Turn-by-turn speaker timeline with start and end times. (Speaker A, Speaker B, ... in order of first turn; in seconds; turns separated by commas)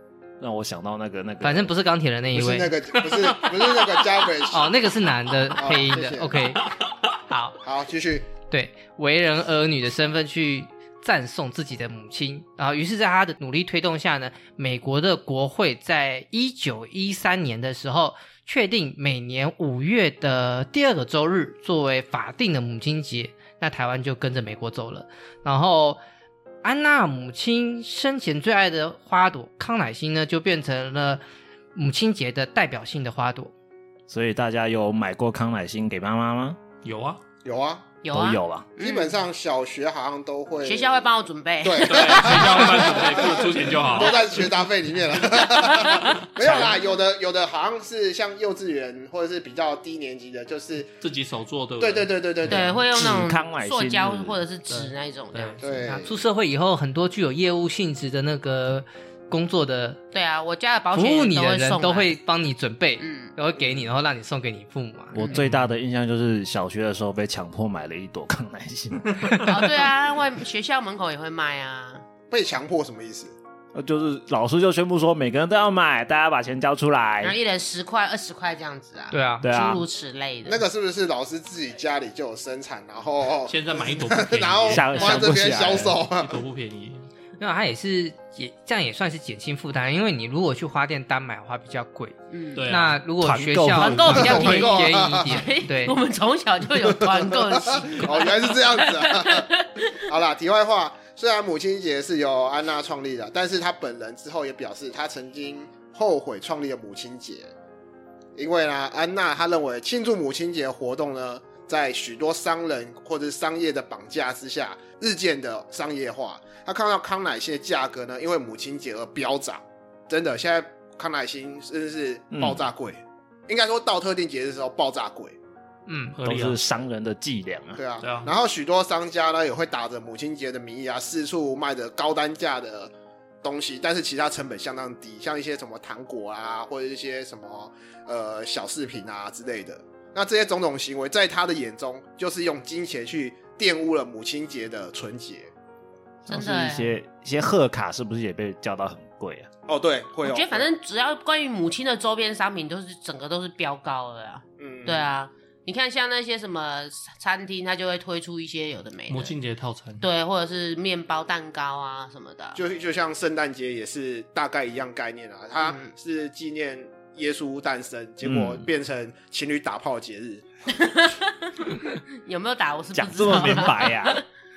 Speaker A: 0.4-1.7, Speaker B: 1.4-2.8, Speaker C: 2.3-4.8, Speaker D: 3.0-4.0, Speaker B: 4.5-6.7, Speaker C: 5.6-6.5, Speaker B: 7.3-7.6, Speaker C: 7.6-8.3, Speaker B: 8.5-26.0, Speaker B: 26.6-31.2, Speaker B: 31.7-33.5, Speaker A: 34.1-36.6, Speaker D: 36.8-37.2, Speaker C: 37.4-37.9, Speaker E: 38.0-39.1, Speaker A: 38.1-38.7, Speaker C: 38.8-41.1, Speaker E: 40.6-43.4, Speaker C: 41.6-50.9, Speaker D: 41.9-44.2, Speaker E: 45.6-46.6, Speaker D: 51.0-52.7, Speaker C: 51.8-52.8, Speaker E: 52.5-56.0, Speaker A: 52.9-54.4, Speaker D: 54.7-55.6, Speaker C: 55.6-56.1, Speaker B: 56.0-60.0, Speaker E: 60.1-62.1, Speaker B: 60.9-65.2, Speaker E: 63.0-63.3, Speaker A: 65.1-69.6, Speaker E: 65.2-65.4, Speaker D: 65.3-65.7, Speaker D: 69.2-69.6, Speaker E: 69.4-72.0, Speaker C: 72.3-73.3, Speaker A: 73.7-77.4, Speaker E: 77.2-80.6, Speaker B: 79.1-79.5, Speaker A: 79.4-79.8, Speaker C: 80.5-86.4, Speaker D: 83.5-84.9, Speaker A: 84.7-86.0, Speaker E: 84.9-85.3, Speaker D: 86.1-87.1, Speaker B: 87.4-92.1, Speaker E: 92.3-92.7, Speaker D: 92.5-93.0, Speaker B: 92.7-96.0, Speaker A: 93.2-94.7, Speaker E: 93.8-100.0, Speaker C: 94.1-95.5, Speaker C: 96.8-107.5, Speaker C: 108.3-125.4, Speaker A: 122.3-122.6, Speaker B: 125.9-126.2, Speaker D: 126.2-126.6, Speaker A: 126.2-127.8, Speaker C: 127.8-145.5, Speaker D: 128.0-128.3, Speaker A: 146.2-149.5, Speaker E: 146.3-146.9, Speaker C: 149.7-150.7, Speaker E: 150.2-159.3, Speaker C: 154.6-155.1, Speaker D: 159.1-160.1, Speaker E: 160.0-162.6, Speaker C: 162.5-170.4, Speaker E: 165.6-165.9, Speaker A: 168.2-168.6, Speaker E: 170.8-174.2, Speaker A: 172.9-174.2